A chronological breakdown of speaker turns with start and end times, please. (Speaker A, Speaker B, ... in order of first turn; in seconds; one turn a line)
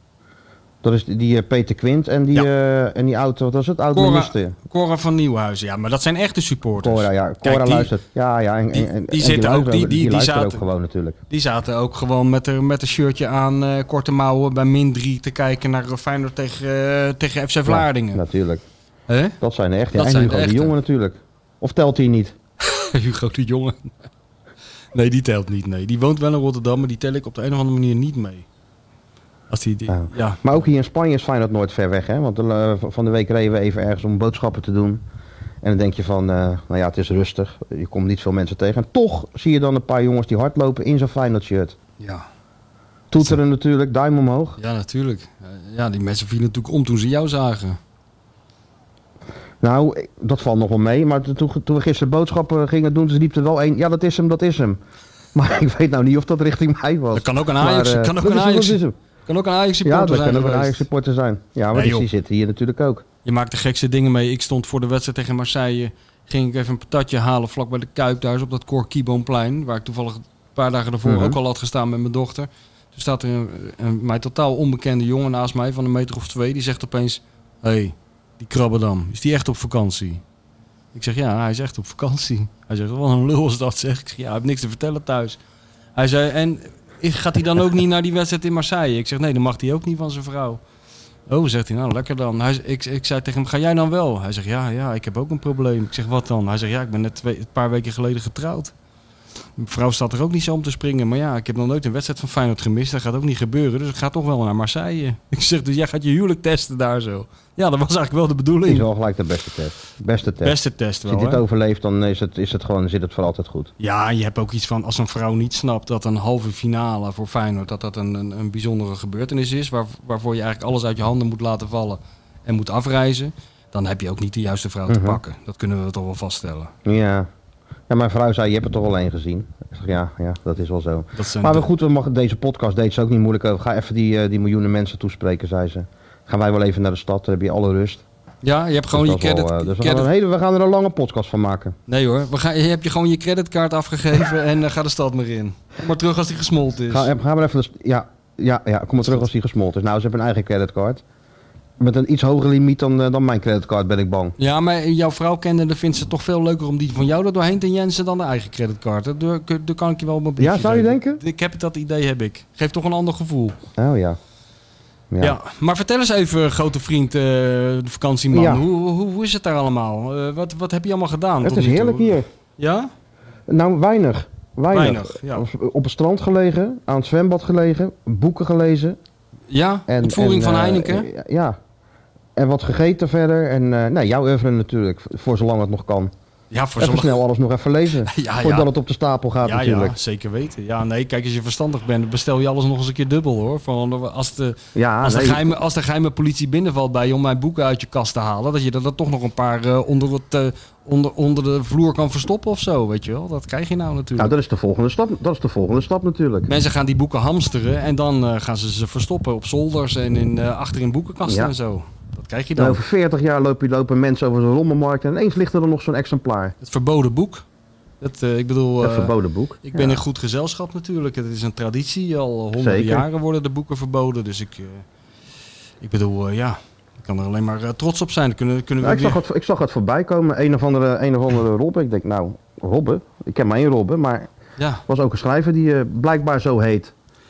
Speaker A: 0.8-4.5
Speaker B: 3.9-7.9
Speaker A: 6.8-11.2
Speaker B: 8.7-10.6
Speaker B: 11.3-18.2
Speaker A: 17.6-18.6
Speaker B: 19.1-19.4
Speaker A: 19.4-22.3
Speaker B: 19.9-20.7
Speaker B: 22.6-23.9
Speaker B: 24.9-28.4
Speaker B: 29.5-30.4
Speaker A: 29.9-35.0
Speaker A: 35.6-41.8
Speaker B: 42.0-42.3
Speaker A: 43.1-44.6
Speaker B: 44.6-47.8
Speaker A: 49.6-54.8
Speaker A: 55.3-59.0
Speaker B: 57.1-60.8
Speaker A: 59.8-63.0
Speaker B: 61.7-62.1
Speaker B: 63.2-80.2
Speaker A: 71.0-71.3
Speaker B: 80.9-85.4
Speaker B: 85.9-90.6
Speaker B: 91.3-98.7
Speaker B: 99.6-108.9
Speaker A: 108.6-110.5
Speaker B: 110.4-111.4
Speaker A: 111.1-113.7
Speaker B: 113.8-126.7
Speaker A: 124.9-125.2
Speaker A: 126.8-127.3
Speaker A: 127.9-138.0
Speaker B: 131.1-131.7
Speaker B: 138.4-140.1
Speaker A: 138.9-141.7
Speaker B: 141.9-147.1
Speaker A: 146.9-151.0
Speaker A: 151.8-154.3
Speaker B: 154.4-163.6
Speaker A: 160.4-161.2
Speaker A: 163.8-164.2
Speaker A: 165.1-165.3
Speaker B: 165.2-172.9
Speaker A: 168.3-168.6
Speaker A: 171.4-172.3
Speaker A: 173.5-179.0
Speaker B: 174.7-175.5
Speaker B: 179.5-181.1
Speaker A: 179.9-181.6
Speaker A: 182.3-186.1
Speaker B: 186.5-187.2
Speaker A: 186.8-189.9
Speaker B: 188.0-188.7
Speaker B: 189.4-204.3
Speaker A: 194.8-195.5
Speaker A: 204.2-206.5
Speaker B: 206.5-212.8
Speaker A: 211.2-211.5
Speaker A: 212.6-216.5
Speaker B: 216.6-217.4
Speaker B: 218.0-219.1
Speaker A: 218.8-220.0
Speaker B: 219.6-224.8
Speaker A: 222.6-223.0
Speaker B: 225.8-229.2
Speaker A: 228.8-234.3
Speaker B: 234.6-234.8
Speaker A: 234.9-236.9